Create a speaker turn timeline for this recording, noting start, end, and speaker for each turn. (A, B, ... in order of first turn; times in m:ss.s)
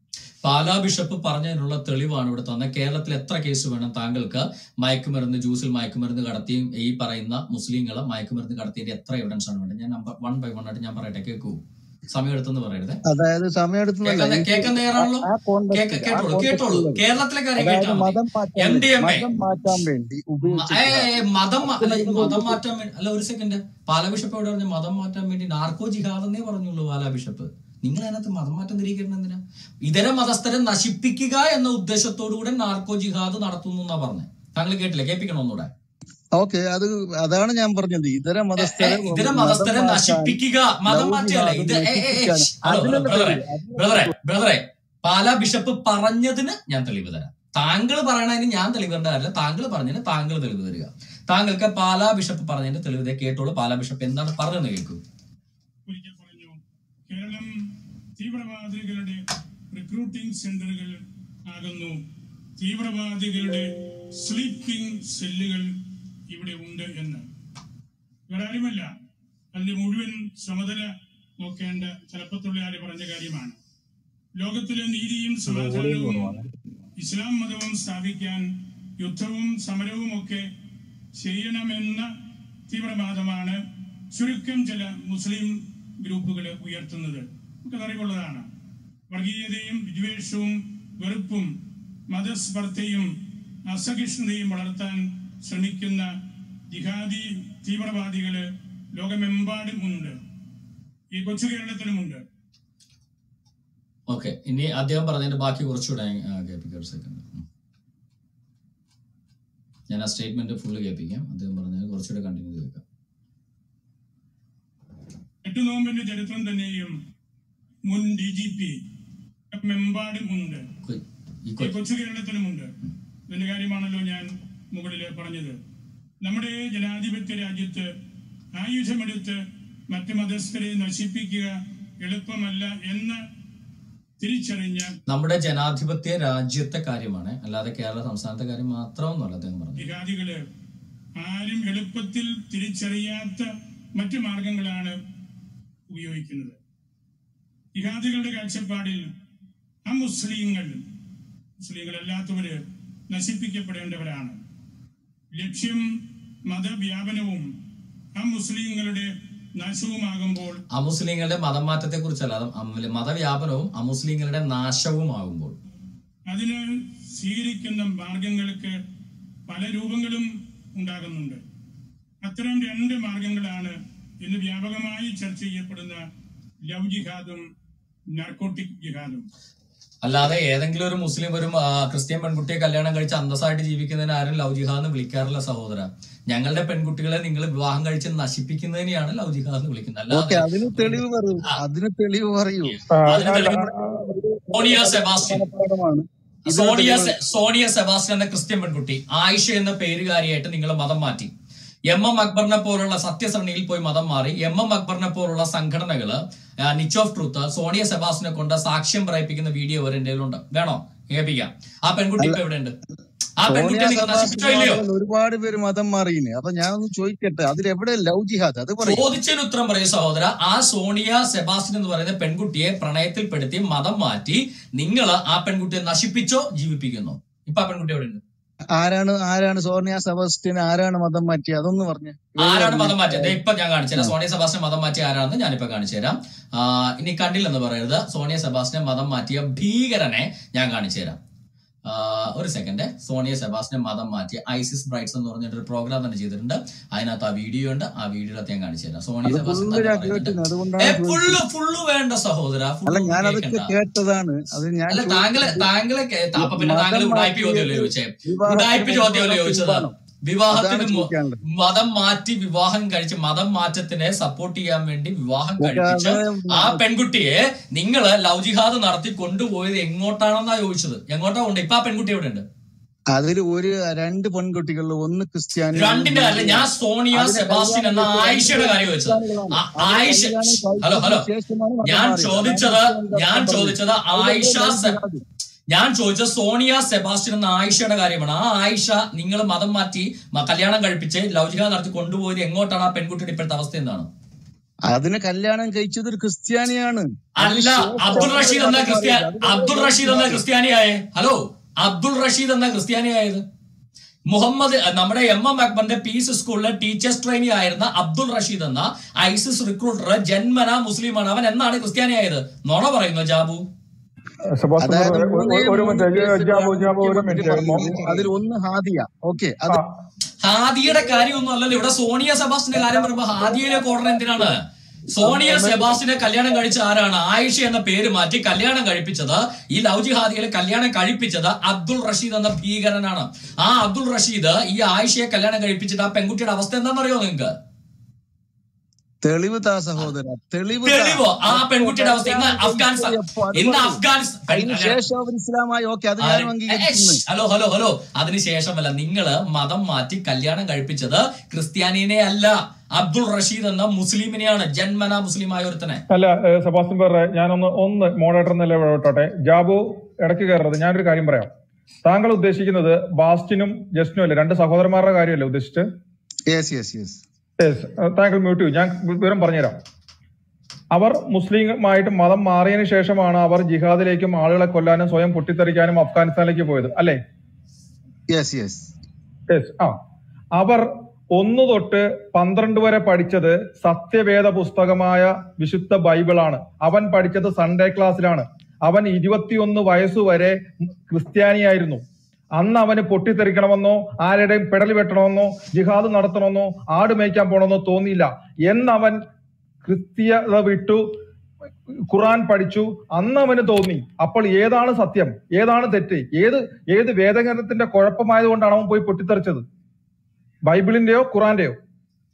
0:00.4-0:13.0 A
0:13.1-0:17.0 B
0:14.0-0:19.3 A
0:17.6-0:22.6 B
0:20.4-0:35.7 A
0:36.4-0:44.1 B
0:38.6-0:55.0 A
0:55.9-0:57.5 C
0:58.2-0:59.2 C
0:59.7-1:02.0 C
1:02.6-1:03.6 C
1:04.2-1:05.7 C
1:06.3-1:07.2 C
1:08.3-1:08.9 C
1:09.5-1:13.6 C
1:14.4-1:16.3 C
1:17.0-1:18.4 C
1:19.0-1:20.4 C
1:21.2-1:22.1 C
1:22.7-1:23.6 C
1:24.1-1:28.4 C
1:29.1-1:31.5 C
1:32.1-1:33.1 C
1:33.7-1:36.1 C
1:36.7-1:38.4 C
1:39.0-1:40.2 C
1:41.1-1:42.2 C
1:44.1-1:47.4 A
1:49.9-1:52.8 A
1:55.4-1:56.9 C
1:57.9-1:58.7 C
1:59.5-2:00.6 C
2:00.8-2:01.7 A
2:01.6-2:02.7 C
2:03.3-2:05.6 C
2:06.2-2:07.8 C
2:08.6-2:09.4 C
2:09.9-2:11.5 C
2:12.0-2:13.2 C
2:14.2-2:14.9 C
2:15.1-2:19.8 A
2:19.8-2:20.4 C
2:21.2-2:24.9 C
2:25.9-2:26.6 C
2:27.8-2:29.0 C
2:29.9-2:30.8 C
2:31.6-2:32.6 C
2:33.1-2:34.4 C
2:35.4-2:35.8 C
2:36.5-2:37.4 C
2:38.2-2:40.6 C
2:40.7-2:45.6 A
2:46.3-2:46.6 C
2:47.2-2:48.7 C
2:49.5-2:51.4 C
2:52.2-2:56.0 C
2:56.7-2:57.4 C
2:58.1-2:59.2 C
3:00.0-3:11.6 A
3:10.1-3:17.2 B
3:12.9-3:13.9 D
3:13.0-3:13.7 A
3:14.5-3:15.4 A
3:16.4-3:21.3 A
3:21.9-3:32.7 A
3:33.4-3:34.8 A
3:33.5-3:39.1 B
3:38.8-3:48.2 A
3:48.8-3:53.4 B
3:52.4-4:01.2 A
4:01.8-4:13.7 A
4:09.2-4:11.4 B
4:12.8-4:15.6 B
4:14.9-4:32.4 A
4:16.4-4:19.9 B
4:20.5-4:21.4 B
4:25.6-4:26.8 B
4:33.1-4:45.2 B
4:35.8-4:41.2 A
4:41.8-4:45.0 A
4:45.7-4:54.1 A
4:54.9-5:00.4 B
4:57.4-5:03.4 A
5:04.3-5:13.6 A
5:14.5-5:18.2 D
5:14.8-5:19.8 B
5:20.4-5:24.6 A
5:22.8-5:24.3 B
5:25.1-5:37.5 A
5:25.2-5:26.0 B
5:39.2-5:47.2 B
5:40.8-5:45.0 A
5:46.2-5:56.0 A
5:56.1-6:01.5 D
6:02.0-6:05.9 D
6:06.5-6:07.2 B
6:07.6-6:09.8 D
6:10.9-6:17.2 D
6:18.3-6:18.9 B
6:19.5-6:20.0 D
6:20.6-6:32.0 D
6:32.6-6:39.2 D
6:39.8-6:41.0 D
6:42.1-6:49.6 D
6:50.7-6:51.8 D